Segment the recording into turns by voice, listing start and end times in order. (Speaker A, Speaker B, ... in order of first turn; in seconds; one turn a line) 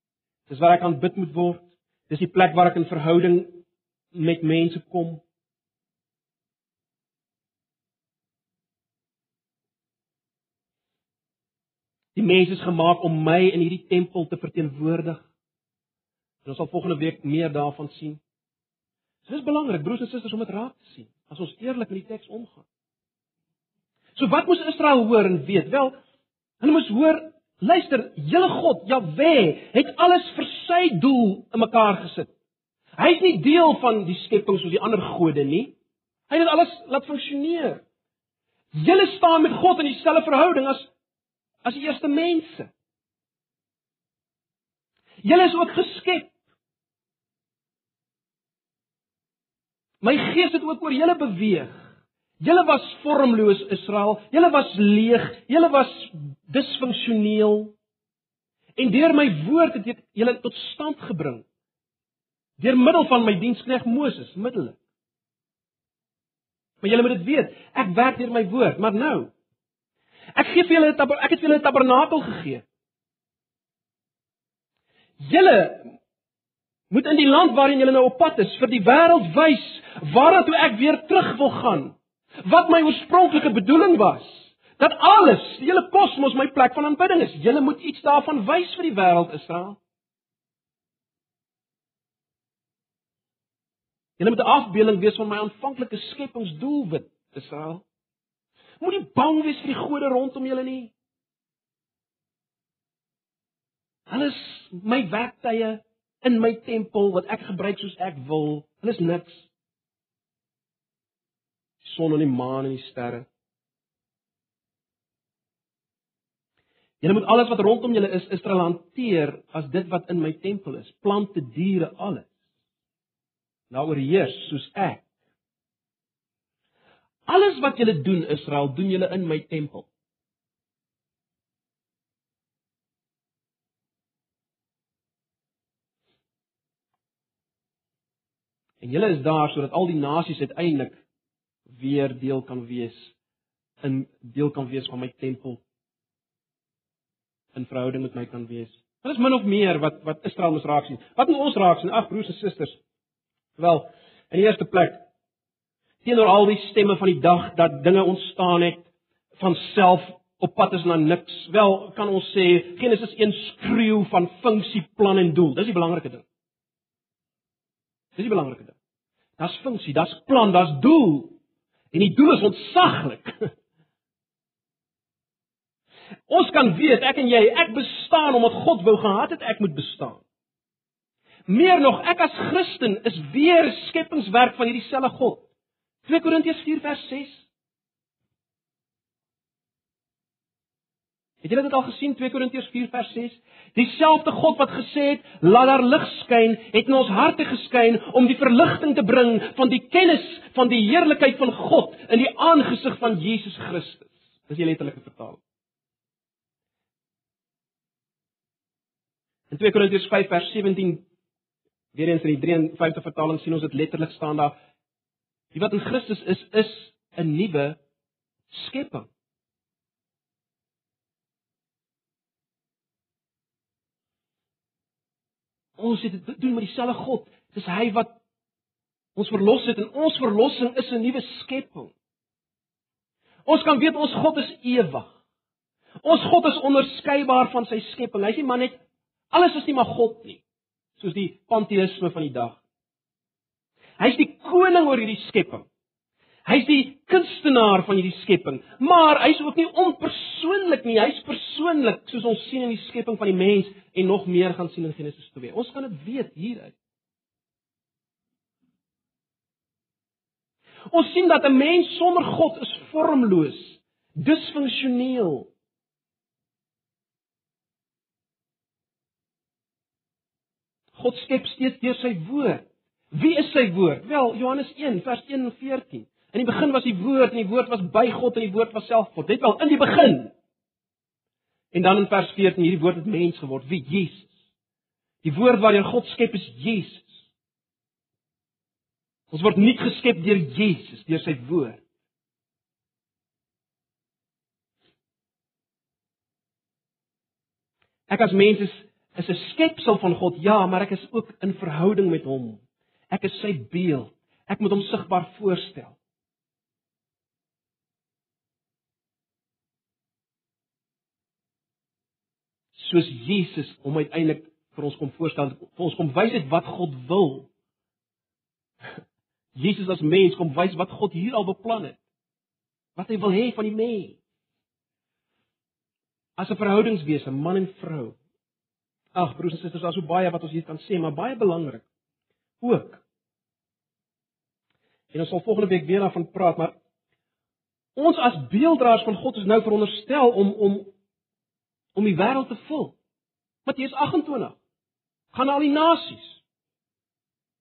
Speaker A: 0.5-3.6
Speaker A: 4.1-5.2
Speaker A: 12.2-15.3
Speaker A: 16.4-18.2
Speaker A: 19.3-22.7
Speaker A: 24.2-25.9
Speaker A: 26.6-32.3
Speaker A: 33.0-35.7
Speaker A: 36.3-37.8
Speaker A: 38.7-40.9
Speaker A: 41.6-42.7
Speaker A: 45.2-46.3
Speaker A: 50.0-51.9
Speaker A: 52.4-57.8
Speaker A: 58.8-61.5
Speaker A: 62.6-64.8
Speaker A: 66.8-69.3
Speaker A: 70.4-72.7
Speaker A: 75.2-75.9
Speaker A: 76.9-89.8
Speaker A: 94.2-97.8
Speaker A: 98.8-100.9
Speaker A: 104.1-109.5
Speaker A: 111.8-113.3
Speaker A: 117.0-122.3
Speaker A: 123.7-125.1
Speaker A: 127.3-129.9
Speaker A: 138.8-141.0
Speaker A: 141.7-143.1
Speaker A: 143.8-145.6
Speaker A: 147.5-152.8
Speaker A: 153.6-155.0
Speaker A: 156.0-158.9
Speaker A: 159.4-166.2
Speaker A: 168.2-168.8
Speaker A: 169.4-171.4
Speaker A: 171.9-173.5
Speaker A: 176.3-180.2
Speaker A: 181.5-185.5
Speaker A: 186.0-187.5
Speaker A: 191.4-205.4
Speaker A: 209.5-211.1
Speaker A: 211.9-214.6
Speaker A: 215.5-217.8
Speaker A: 218.5-219.1
Speaker A: 225.8-228.2
Speaker A: 229.2-231.9
Speaker A: 233.5-235.1
Speaker A: 236.0-238.8
Speaker A: 239.3-240.4
Speaker A: 241.0-242.6
Speaker A: 244.0-245.7
Speaker A: 246.5-256.8
Speaker A: 260.9-265.5
Speaker A: 270.9-280.3
Speaker A: 281.7-284.3
Speaker A: 285.2-287.2
Speaker A: 289.3-291.8
Speaker A: 298.1-306.0
Speaker A: 312.7-317.5
Speaker A: 319.5-322.0
Speaker A: 323.0-324.2
Speaker A: 326.4-328.2
Speaker A: 329.1-331.9
Speaker A: 332.6-333.0
Speaker A: 335.1-336.8
Speaker A: 338.0-340.9
Speaker A: 341.9-343.0
Speaker A: 343.7-344.6
Speaker A: 345.3-346.4